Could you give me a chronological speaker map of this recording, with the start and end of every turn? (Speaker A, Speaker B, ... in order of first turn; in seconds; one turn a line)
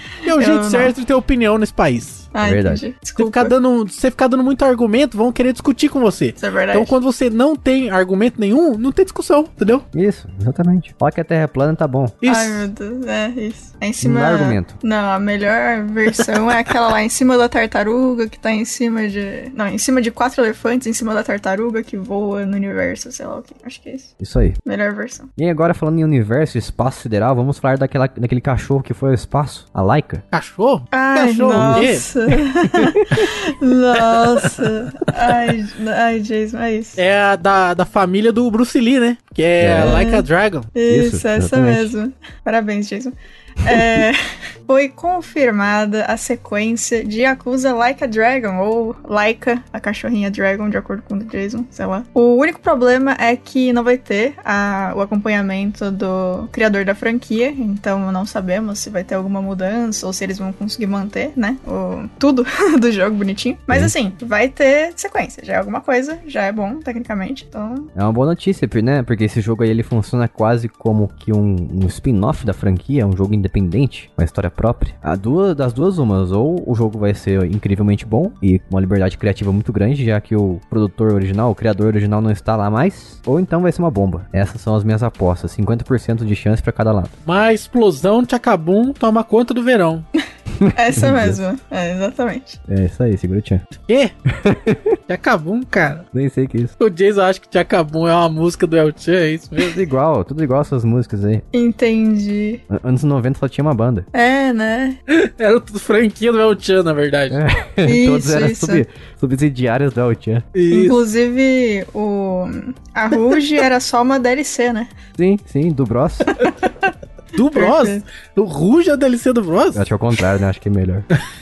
Speaker A: 0.2-2.3
Speaker B: 0.3-0.9
Speaker B: 2.3-3.5
Speaker C: 2.4-2.8
Speaker A: 3.2-9.8
Speaker B: 6.4-7.0
Speaker C: 9.9-12.2
Speaker A: 12.2-12.7
Speaker B: 12.2-24.1
Speaker C: 14.0-14.7
Speaker C: 24.2-24.6
Speaker B: 24.6-25.3
Speaker C: 25.4-30.2
Speaker A: 30.3-32.1
Speaker B: 30.9-37.0
Speaker C: 31.5-31.9
Speaker C: 32.7-33.3
Speaker A: 34.3-35.5
Speaker A: 37.0-40.7
Speaker C: 39.6-40.0
Speaker B: 39.8-67.9
Speaker C: 40.9-41.9
Speaker C: 67.9-87.1
Speaker A: 87.2-90.0
Speaker C: 90.6-91.4
Speaker B: 90.7-92.6
Speaker C: 92.7-93.6
Speaker C: 94.3-95.0
Speaker A: 95.1-96.0
Speaker C: 96.1-96.7
Speaker A: 96.8-99.8
Speaker C: 99.6-101.4
Speaker B: 101.5-102.6
Speaker C: 102.7-104.1
Speaker B: 104.1-105.0
Speaker A: 105.1-107.4
Speaker C: 107.3-110.5
Speaker B: 107.8-108.8
Speaker A: 110.5-111.0
Speaker B: 110.7-114.9
Speaker C: 115.2-116.4
Speaker B: 116.3-116.6
Speaker A: 117.3-119.8
Speaker B: 117.5-118.0
Speaker C: 119.7-121.1